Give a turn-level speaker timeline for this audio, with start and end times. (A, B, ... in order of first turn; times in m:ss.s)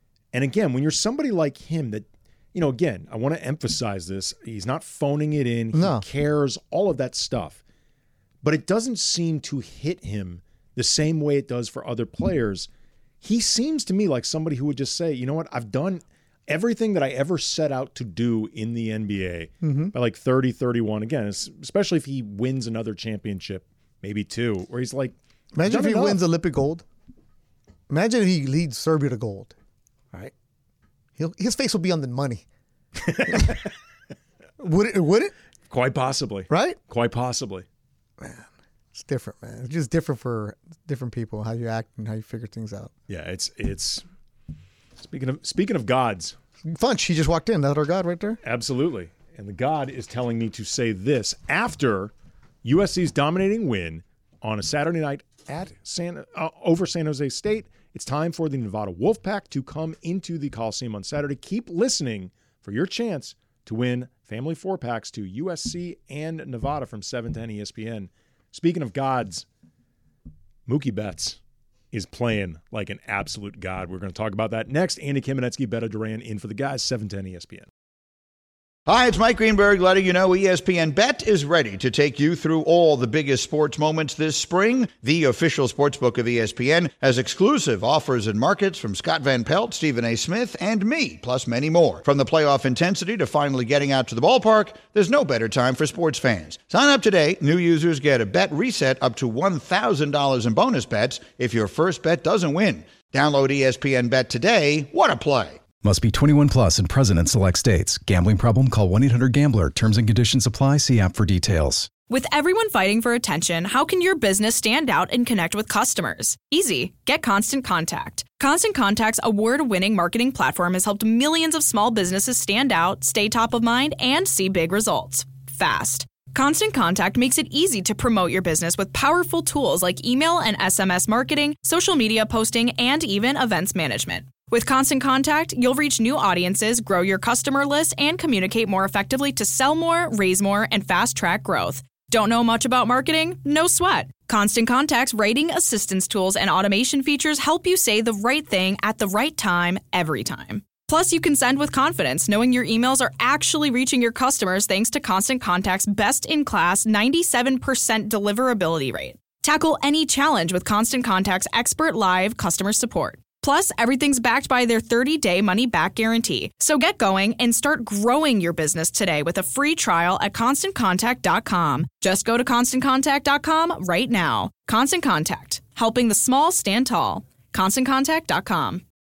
0:00.3-0:07.6 A
0:05.7-0:06.0 B
0:08.4-0:12.7 A
0:13.2-0:26.2 A
0:19.6-0:19.9 B
0:25.5-0:26.8 B
0:27.9-0:29.5 B
0:31.2-0:32.4 B
0:33.0-0:33.7 A
0:33.2-0:33.6 B
0:34.6-0:35.3 B
0:35.7-0:37.6 A
0:36.5-0:36.8 B
0:38.2-0:42.9 B
0:43.1-0:44.0 A
0:45.0-0:46.3 A
0:46.7-0:48.4 B
0:48.4-0:52.1 A
0:52.6-1:09.4 A
1:10.7-1:11.4 A
1:11.9-1:17.7 A
1:18.9-1:45.6 C
1:45.8-1:51.9 D
1:52.1-2:58.8 E